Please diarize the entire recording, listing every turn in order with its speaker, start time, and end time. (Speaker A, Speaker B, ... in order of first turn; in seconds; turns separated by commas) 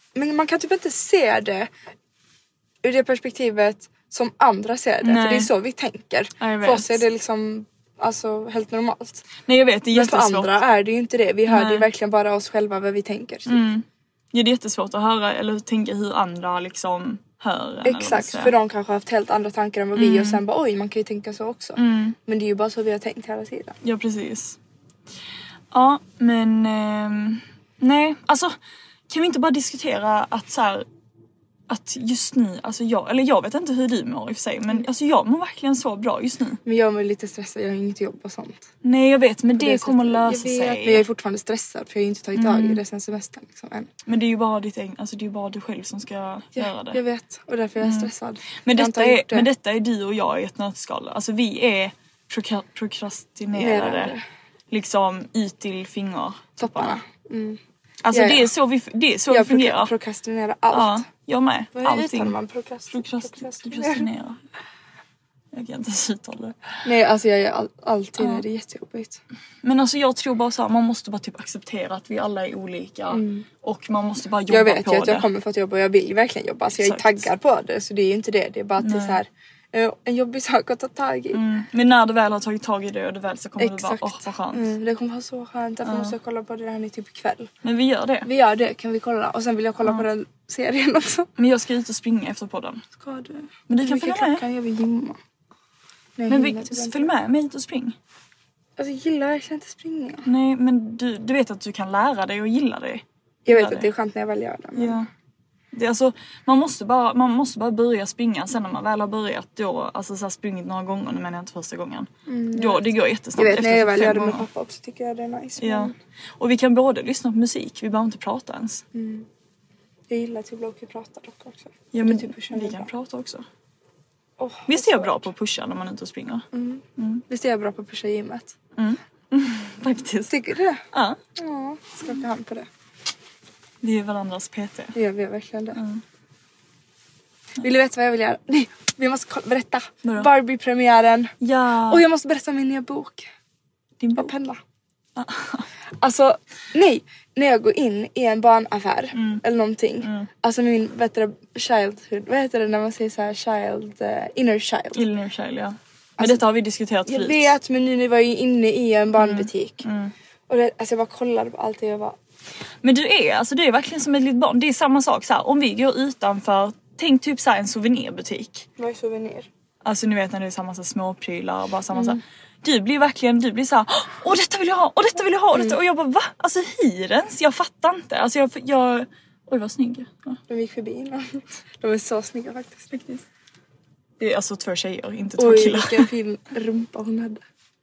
Speaker A: 0.1-1.7, Speaker A: 2.8-9.3, Speaker B: 5.0-5.5, Speaker B: 6.4-7.0, Speaker B: 9.4-10.6, Speaker A: 9.9-13.7, Speaker B: 11.5-11.9, Speaker B: 13.5-18.6, Speaker A: 17.8-23.8, Speaker B: 19.9-20.4, Speaker B: 21.8-22.2, Speaker B: 23.8-24.6, Speaker B: 25.7-28.6, Speaker B: 29.1-30.9, Speaker B: 31.7-36.6, Speaker A: 36.6-38.6, Speaker B: 38.8-41.0, Speaker A: 39.6-43.9, Speaker B: 42.4-42.8, Speaker B: 44.1-47.0, Speaker A: 46.6-49.5, Speaker B: 47.8-48.1, Speaker B: 48.6-54.1, Speaker A: 53.5-54.2, Speaker B: 54.7-57.0, Speaker A: 56.6-57.6, Speaker B: 58.0-59.9, Speaker A: 58.1-58.5, Speaker A: 59.3-61.1, Speaker B: 60.7-62.4, Speaker A: 61.7-64.1, Speaker B: 62.9-64.4, Speaker B: 65.5-66.6, Speaker A: 66.8-69.2, Speaker B: 68.2-68.4, Speaker B: 69.6-75.3, Speaker A: 73.1-73.5, Speaker A: 74.5-81.4, Speaker B: 76.8-77.3, Speaker B: 78.8-79.2, Speaker B: 81.3-84.7, Speaker A: 83.6-87.5, Speaker B: 85.8-86.2, Speaker B: 87.6-88.3, Speaker A: 88.2-91.3, Speaker B: 89.8-90.1, Speaker B: 91.4-92.8, Speaker A: 93.0-95.2, Speaker B: 93.7-94.5, Speaker A: 96.2-97.1, Speaker B: 96.3-98.0, Speaker A: 98.8-100.3, Speaker B: 100.3-103.9, Speaker A: 103.5-105.0, Speaker B: 104.8-105.1, Speaker B: 105.7-114.5, Speaker A: 112.3-116.0, Speaker B: 115.6-118.8, Speaker A: 118.9-119.3, Speaker A: 120.1-122.9, Speaker B: 121.9-123.5, Speaker A: 124.4-125.3, Speaker B: 124.7-127.2, Speaker A: 126.5-128.6, Speaker B: 128.8-130.3, Speaker A: 130.3-130.8, Speaker B: 130.9-131.2, Speaker A: 131.4-132.7, Speaker B: 133.8-134.9, Speaker A: 134.9-135.8, Speaker B: 135.7-136.0, Speaker A: 137.6-141.3, Speaker B: 140.0-140.3, Speaker B: 141.4-142.1, Speaker A: 141.9-143.3, Speaker B: 144.0-144.3, Speaker A: 144.2-144.6, Speaker B: 145.2-145.7, Speaker A: 146.0-155.0, Speaker B: 149.1-149.4, Speaker B: 150.0-150.3, Speaker B: 154.9-157.5, Speaker A: 156.2-156.4, Speaker A: 157.1-159.8, Speaker B: 159.2-160.1, Speaker A: 160.5-162.2, Speaker B: 162.8-168.7, Speaker A: 168.8-169.5, Speaker B: 169.8-180.4, Speaker A: 171.9-172.2, Speaker A: 175.5-175.8, Speaker A: 180.5-182.9, Speaker B: 182.9-183.2, Speaker B: 184.2-186.1, Speaker A: 185.4-187.4